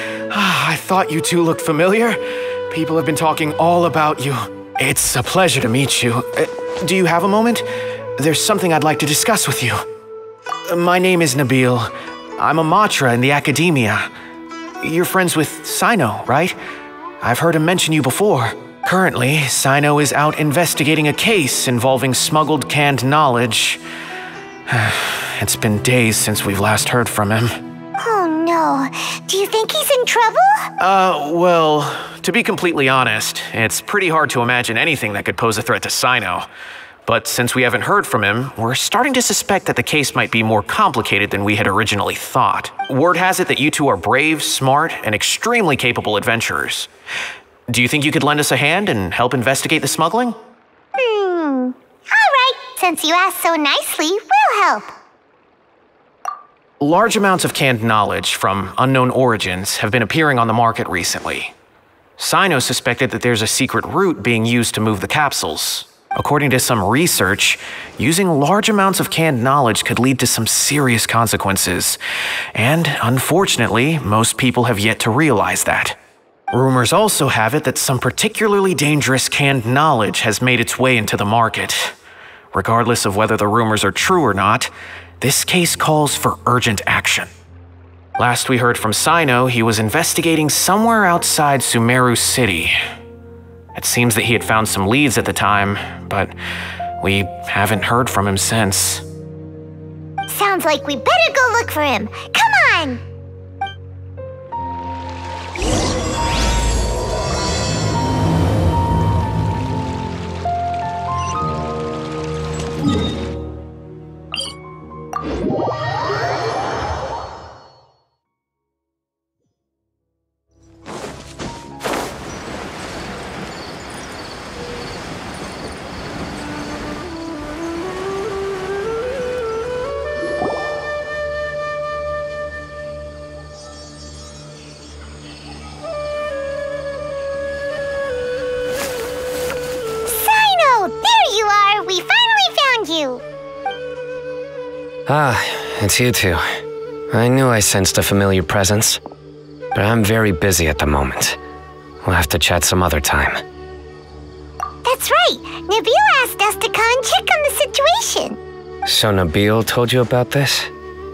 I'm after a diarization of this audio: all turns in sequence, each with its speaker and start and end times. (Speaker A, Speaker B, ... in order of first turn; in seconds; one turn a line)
Speaker A: 0.3-2.2
Speaker A: 2.7-7.6
Speaker A: 8.2-9.8
Speaker A: 10.7-14.1
Speaker A: 14.8-16.6
Speaker A: 17.2-23.8
Speaker A: 24.7-27.5
Speaker B: 28.0-30.7
Speaker A: 30.8-36.5
Speaker A: 37.0-46.9
Speaker A: 47.7-50.4
Speaker B: 51.0-54.9
Speaker A: 56.8-61.5
Speaker A: 62.2-72.0
Speaker A: 72.5-76.0
Speaker A: 76.5-81.9
Speaker A: 82.5-87.3
Speaker A: 88.2-92.8
Speaker A: 93.7-96.3
Speaker A: 97.0-99.0
Speaker B: 100.3-103.0
Speaker B: 140.1-143.2
Speaker C: 145.1-146.4
Speaker C: 147.1-149.0
Speaker C: 149.7-151.4
Speaker C: 152.0-153.4
Speaker B: 154.8-158.4
Speaker C: 158.8-160.7